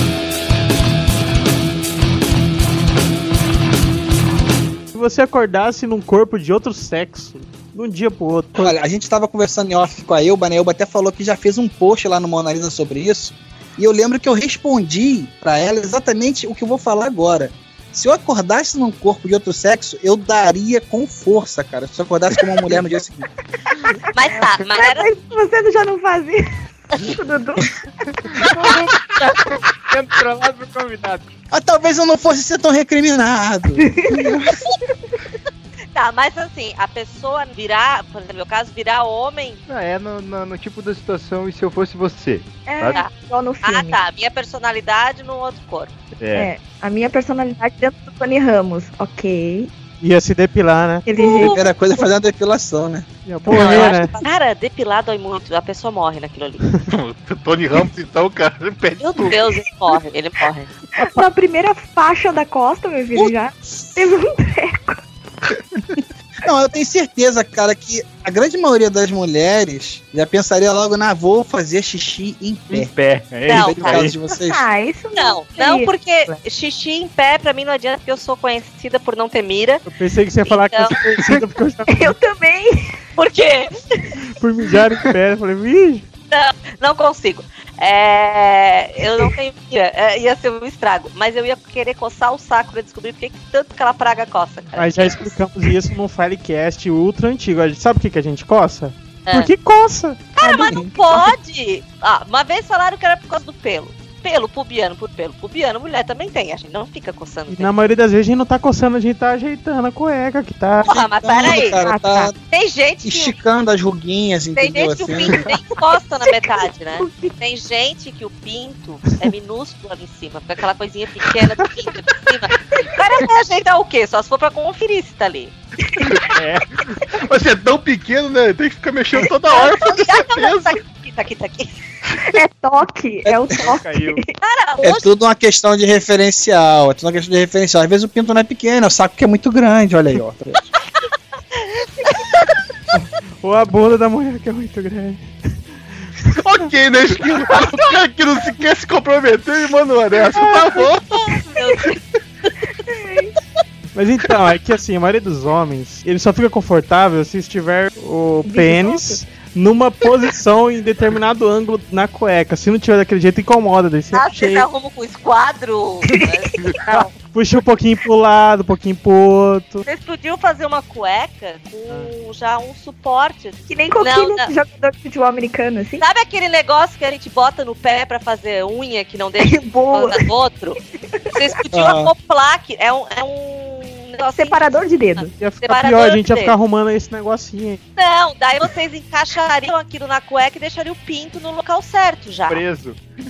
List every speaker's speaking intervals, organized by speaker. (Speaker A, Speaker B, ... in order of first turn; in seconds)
Speaker A: 4.9-8.8, 50.0-51.0, 53.2-54.1, 79.8-82.2, 84.4-86.0, 94.8-100.2, 107.5-111.0, 142.9-145.3, 153.9-164.7, 167.2-169.8, 185.3-187.8
Speaker B: 8.6-23.3, 31.5-34.6, 51.4-53.9, 66.4-72.9, 73.5-74.6, 110.9-112.3, 113.0-115.4, 134.8-140.7, 181.7-182.1
Speaker C: 24.1-25.1, 35.9-39.6, 43.6-45.9, 51.2-51.6, 53.5-56.7, 59.0-60.7, 73.5-74.1, 75.1-79.8, 80.5-81.0, 83.2-84.1, 86.3-95.3, 99.2-99.5, 100.3-107.7, 110.8-111.8, 112.5-113.4, 114.5-125.5, 129.5-131.8, 134.4-135.1, 141.6-142.2, 151.2-152.0, 164.1-167.0, 169.8-174.5, 176.0-180.8, 181.3-186.5, 188.0-192.6
Speaker D: 24.4-27.7, 33.8-34.3, 42.6-44.0, 46.3-49.7, 51.0-51.7, 61.0-65.0, 74.5-76.3, 81.9-83.0, 100.4-101.3, 111.8-112.3, 117.0-117.3, 132.2-134.3, 150.5-150.8, 152.9-153.3, 158.4-159.2, 166.1-167.1, 173.7-176.0, 179.4-180.2, 184.4-185.3
Speaker E: 28.5-31.3, 39.7-43.0, 46.2-46.5, 72.7-74.2, 126.3-126.7, 133.5-134.2, 192.5-193.0
Speaker F: 56.9-59.5, 127.2-130.8, 146.3-151.3